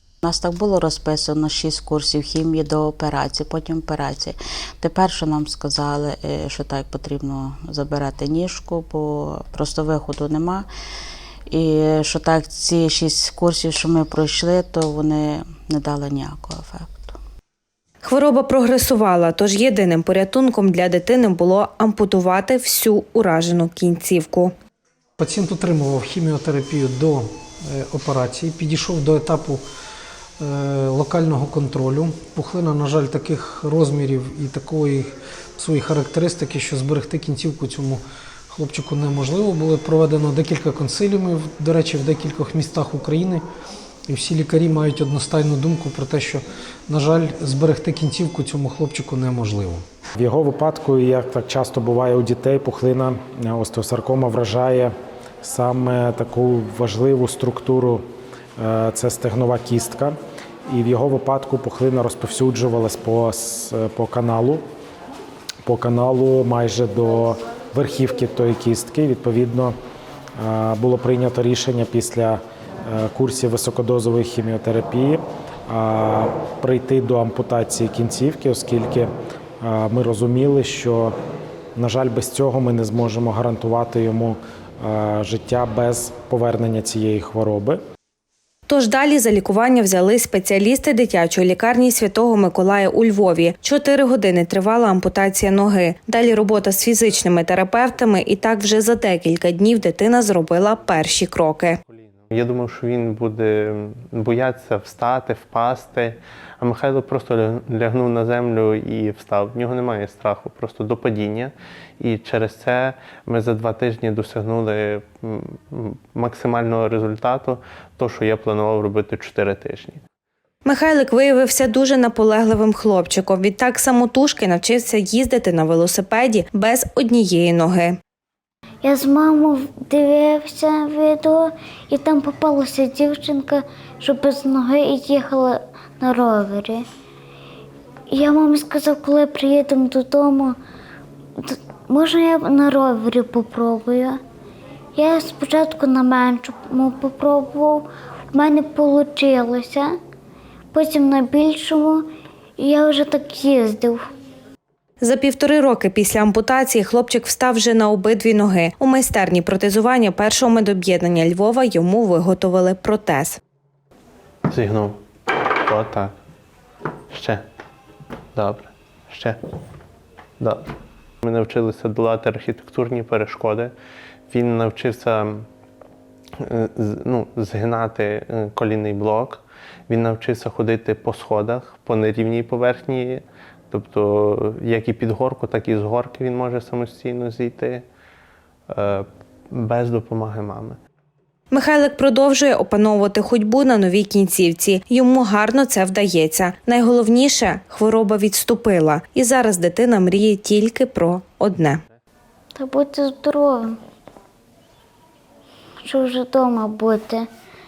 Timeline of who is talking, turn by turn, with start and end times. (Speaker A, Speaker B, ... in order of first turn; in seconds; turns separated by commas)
Speaker A: 0.2-10.7, Speaker A: 11.5-17.2, Speaker B: 18.0-24.5, Speaker C: 25.2-29.6, Speaker C: 30.4-43.5, Speaker C: 44.1-49.8, Speaker D: 50.2-58.0, Speaker D: 58.6-60.1, Speaker D: 60.7-64.6, Speaker D: 65.6-69.8, Speaker D: 70.4-79.1, Speaker D: 79.6-81.2, Speaker D: 81.8-87.8, Speaker B: 88.7-101.8, Speaker E: 101.9-120.0, Speaker B: 120.7-128.0, Speaker F: 128.8-136.8, Speaker F: 138.1-140.6, Speaker F: 141.4-144.2, Speaker F: 145.0-149.9, Speaker F: 150.7-152.1, Speaker F: 152.6-154.0, Speaker B: 155.0-163.4, Speaker E: 164.5-165.0, Speaker E: 165.6-166.1, Speaker E: 167.1-167.4, Speaker E: 168.3-169.4, Speaker E: 171.2-173.7, Speaker E: 174.3-175.5, Speaker E: 176.4-187.8, Speaker E: 188.7-190.8, Speaker B: 191.5-201.8, Speaker F: 202.6-203.7, Speaker F: 205.9-207.3